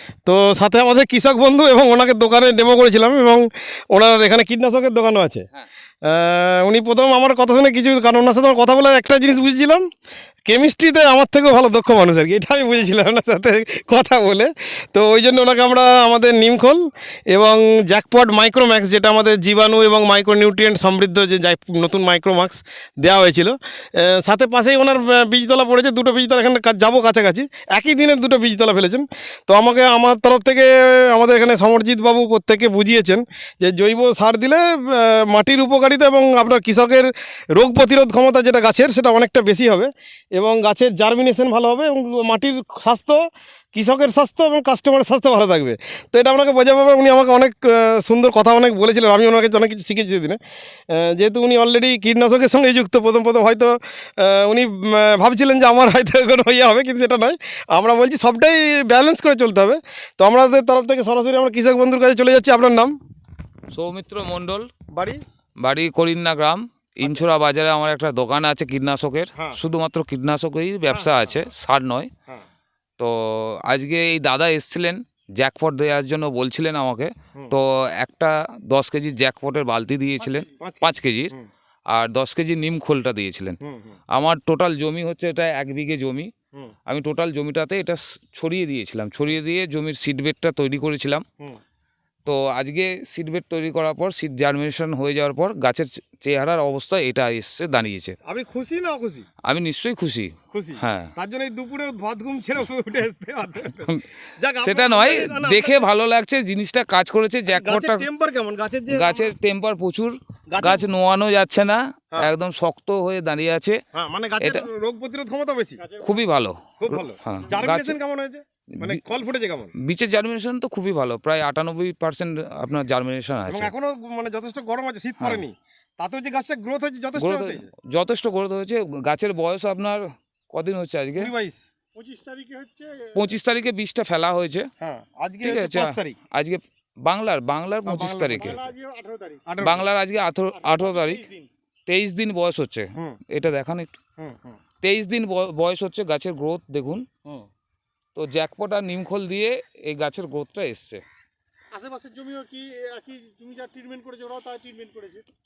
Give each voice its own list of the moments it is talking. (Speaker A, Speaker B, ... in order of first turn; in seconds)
Speaker A: 0.2-5.5, 6.0-9.9, 10.4-43.2, 43.7-50.4, 50.9-63.0, 64.9-65.2, 70.9-71.3, 80.5-81.5, 83.6-84.0, 98.2-99.2, 100.5-105.8, 107.5-109.3, 110.5-110.8, 113.9-115.9, 116.8-119.7, 123.5-127.7, 131.2-131.6, 134.8-136.2, 137.8-138.7, 139.5-139.8, 144.2-144.6
Speaker B: 63.7-64.7, 65.6-72.1, 73.0-81.3, 81.9-83.6, 84.1-86.3, 86.9-91.2, 92.2-98.2, 99.4-101.1, 104.6-108.0, 108.9-113.8, 114.4-114.7, 116.0-118.0, 119.8-123.7, 127.2-131.3, 133.1-134.7, 135.4-138.7, 139.6-141.3, 141.9-143.9, 144.8-147.0, 148.1-151.0
Speaker C: 131.9-133.1, 138.4-139.4, 141.0-141.4, 151.7-155.2